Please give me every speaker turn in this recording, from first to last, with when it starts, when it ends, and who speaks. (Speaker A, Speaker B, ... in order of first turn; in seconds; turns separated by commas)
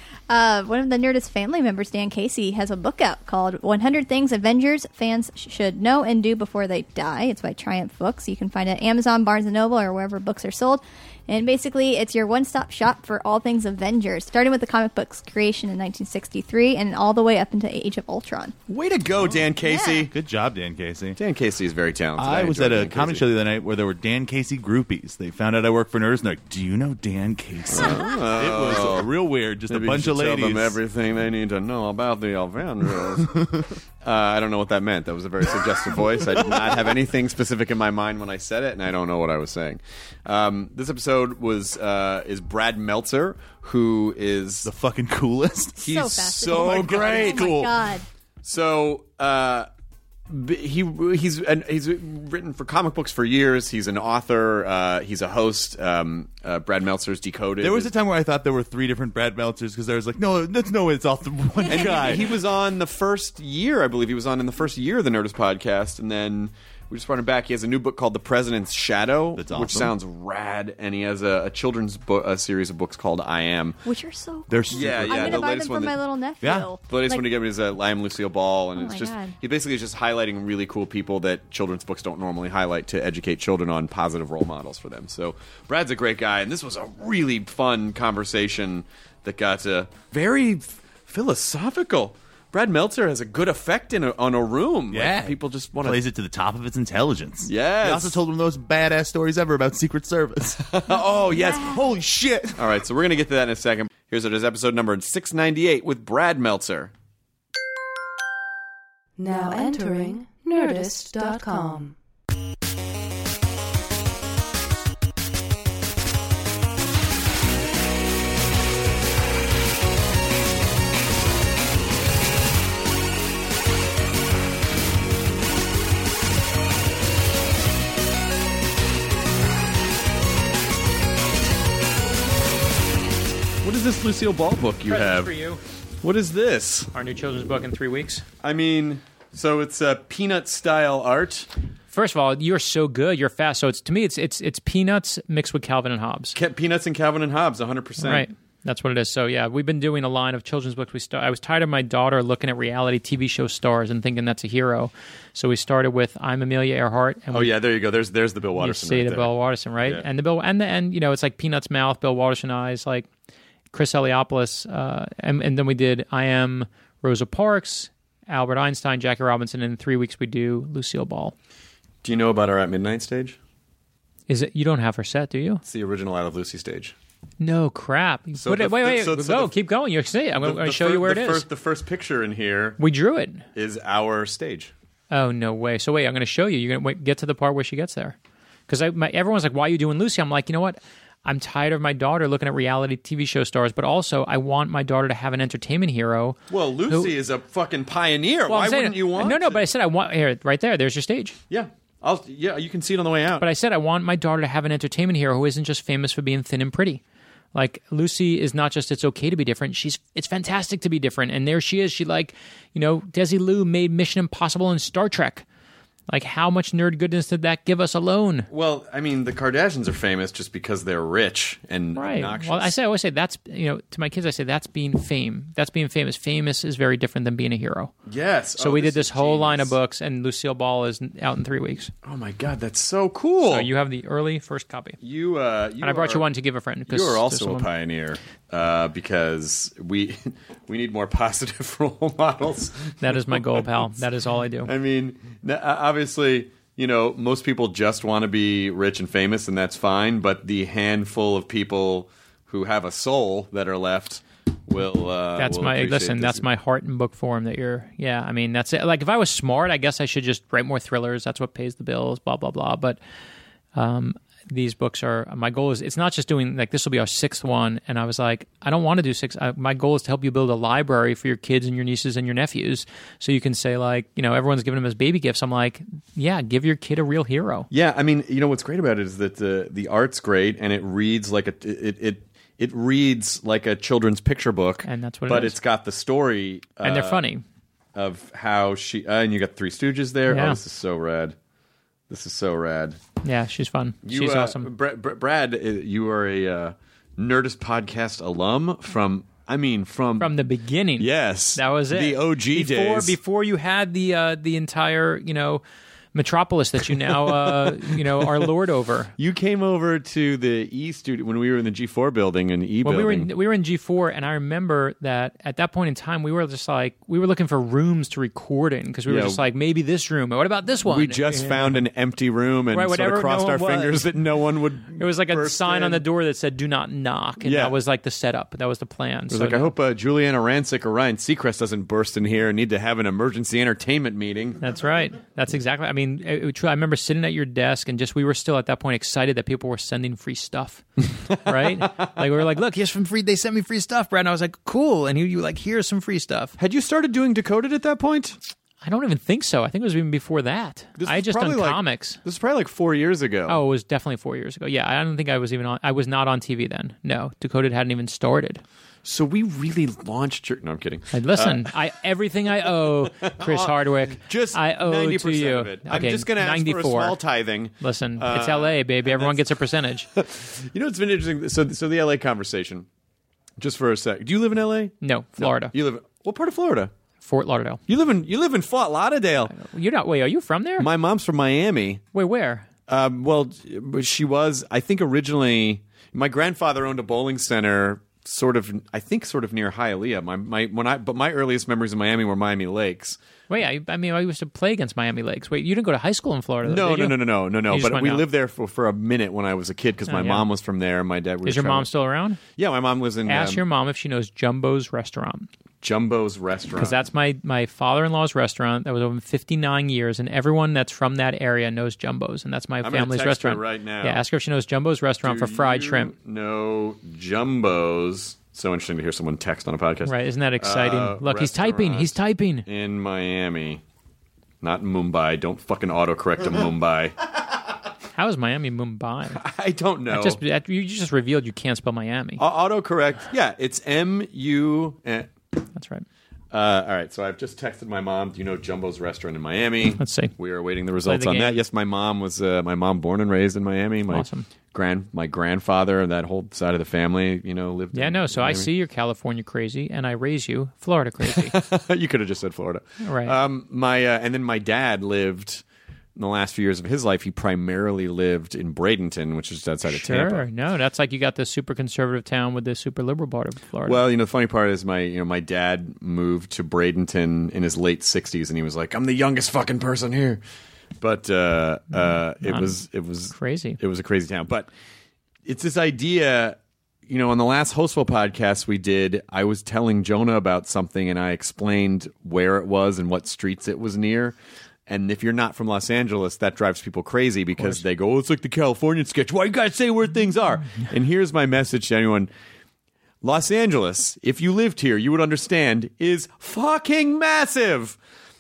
Speaker A: 0.3-18.6, Speaker B: 18.7-20.1, Speaker C: 19.2-21.2, Speaker A: 19.6-20.1, Speaker B: 21.2-23.2, Speaker C: 22.2-30.8, Speaker B: 27.7-29.1, Speaker B: 29.7-33.5, Speaker C: 32.9-33.7, Speaker B: 34.0-44.7, Speaker C: 36.2-36.7, Speaker C: 44.6-47.7, Speaker A: 45.8-48.0, Speaker B: 45.8-47.7, Speaker B: 48.4-49.7, Speaker B: 50.3-57.9, Speaker C: 57.6-62.3, Speaker A: 61.6-62.4, Speaker B: 61.7-73.8, Speaker C: 69.4-69.9, Speaker A: 73.8-77.3, Speaker C: 74.5-75.5, Speaker B: 74.7-76.0, Speaker C: 76.4-76.7, Speaker B: 76.9-96.0, Speaker A: 78.8-79.4, Speaker C: 94.9-102.7, Speaker B: 97.5-98.2, Speaker A: 101.5-101.8, Speaker B: 102.6-106.9, Speaker D: 109.2-112.0, Speaker B: 133.6-135.3, Speaker E: 134.9-135.6, Speaker B: 136.0-136.9, Speaker E: 136.9-138.3, Speaker B: 138.4-141.5, Speaker E: 141.9-146.3, Speaker B: 146.3-148.2, Speaker E: 148.0-157.5, Speaker B: 157.3-159.3, Speaker E: 158.6-163.1, Speaker E: 163.7-171.3, Speaker B: 172.0-173.4, Speaker E: 174.3-175.6, Speaker B: 175.7-176.9, Speaker E: 177.4-181.4, Speaker B: 178.4-179.5, Speaker B: 180.4-182.8, Speaker E: 182.8-183.5, Speaker B: 183.6-184.7, Speaker E: 185.1-188.2, Speaker E: 188.7-197.1, Speaker B: 196.5-199.6, Speaker E: 198.5-201.4, Speaker B: 201.5-203.5, Speaker E: 203.4-207.0, Speaker E: 207.6-215.4, Speaker E: 216.1-218.5, Speaker B: 218.5-222.8, Speaker E: 222.0-227.9, Speaker B: 228.1-229.7, Speaker E: 228.6-231.9, Speaker B: 232.0-233.7, Speaker E: 233.5-235.0, Speaker B: 235.0-236.2, Speaker E: 235.8-237.7, Speaker B: 236.9-244.0, Speaker E: 243.0-244.7, Speaker B: 244.6-256.4, Speaker E: 255.4-263.0, Speaker E: 263.8-277.7, Speaker B: 277.7-287.2, Speaker E: 284.9-285.6, Speaker E: 286.8-287.4, Speaker B: 287.9-291.4, Speaker E: 290.3-290.6, Speaker B: 292.1-293.0, Speaker E: 293.2-294.7, Speaker B: 294.1-300.3, Speaker E: 300.2-305.6, Speaker B: 301.0-303.2, Speaker E: 306.1-309.1, Speaker B: 307.1-308.4, Speaker B: 309.2-313.3, Speaker E: 312.8-321.8, Speaker B: 319.1-319.4, Speaker B: 320.9-326.0, Speaker E: 322.7-324.2, Speaker E: 325.0-329.7, Speaker B: 327.4-327.8, Speaker B: 329.3-334.6, Speaker E: 334.6-346.6, Speaker B: 341.3-342.1, Speaker B: 346.6-348.4, Speaker E: 348.8-352.2, Speaker B: 351.0-353.6, Speaker E: 353.5-358.6, Speaker B: 359.0-361.7, Speaker E: 361.1-367.2, Speaker B: 363.2-369.4, Speaker E: 367.8-370.1, Speaker B: 370.1-372.9, Speaker B: 373.6-376.9, Speaker E: 375.0-375.7, Speaker E: 377.2-377.8, Speaker B: 377.9-379.5, Speaker E: 379.5-380.9, Speaker B: 380.8-382.0, Speaker E: 382.1-382.7, Speaker B: 382.9-393.2, Speaker E: 393.5-398.2, Speaker B: 396.6-401.9, Speaker E: 400.1-400.4, Speaker E: 401.4-402.4, Speaker B: 402.6-403.6, Speaker E: 403.3-405.5, Speaker B: 405.8-407.0, Speaker E: 406.8-416.1, Speaker B: 412.8-414.2, Speaker B: 415.2-423.8, Speaker E: 420.1-422.7, Speaker B: 424.6-427.2, Speaker E: 428.1-429.4, Speaker B: 429.4-430.4, Speaker E: 430.1-432.4, Speaker B: 432.4-435.3, Speaker E: 435.7-436.1, Speaker B: 436.5-448.7, Speaker E: 440.0-440.3, Speaker E: 441.0-441.6, Speaker E: 444.1-444.5, Speaker E: 447.9-451.6, Speaker B: 451.3-455.6, Speaker E: 453.0-453.3, Speaker B: 456.2-460.5, Speaker E: 459.9-464.0, Speaker B: 463.8-470.4, Speaker B: 471.0-474.7, Speaker E: 472.4-472.8, Speaker E: 473.3-473.8, Speaker B: 475.5-484.4, Speaker B: 484.9-492.3, Speaker B: 493.2-498.0